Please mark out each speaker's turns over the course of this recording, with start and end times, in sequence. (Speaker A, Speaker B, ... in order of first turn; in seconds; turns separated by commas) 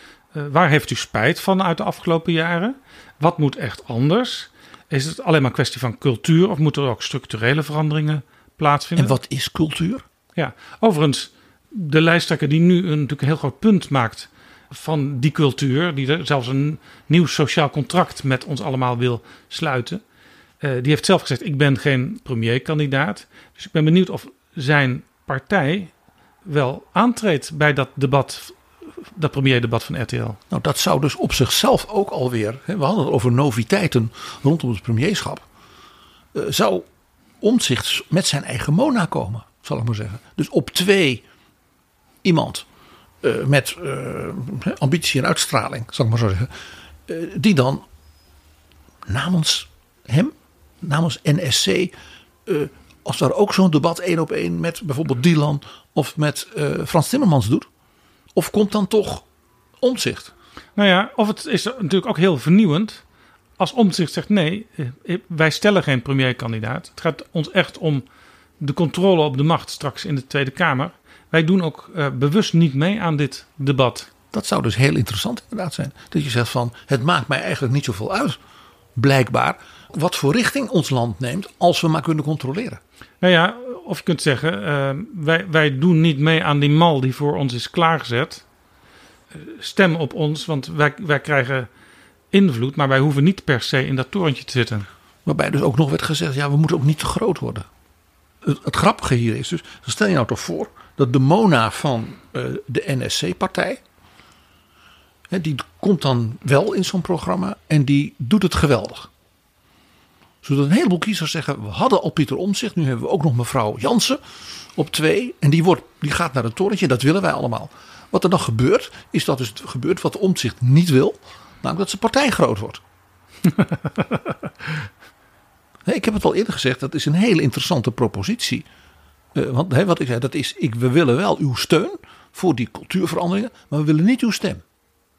Speaker A: 0.3-9.1, Speaker B: 9.0-10.0, Speaker A: 10.3-20.0, Speaker A: 20.6-25.9, Speaker A: 26.4-28.6, Speaker A: 29.1-30.4, Speaker B: 30.5-35.4, Speaker B: 36.3-36.9, Speaker B: 37.4-41.2, Speaker B: 42.2-42.6, Speaker B: 43.2-46.5, Speaker B: 47.1-47.8, Speaker B: 49.1-51.9, Speaker B: 52.5-57.7, Speaker B: 58.3-59.2, Speaker B: 59.8-60.3, Speaker A: 60.8-63.0, Speaker A: 63.6-68.0, Speaker A: 68.6-74.1, Speaker B: 74.3-78.4, Speaker B: 79.0-82.8, Speaker A: 83.2-88.4, Speaker A: 89.3-91.7, Speaker A: 92.3-94.9, Speaker B: 95.2-97.7, Speaker B: 98.4-103.8, Speaker B: 105.3-109.1, Speaker B: 110.4-114.2, Speaker B: 114.8-122.8, Speaker A: 123.6-124.1, Speaker B: 125.8-128.7, Speaker B: 129.3-134.6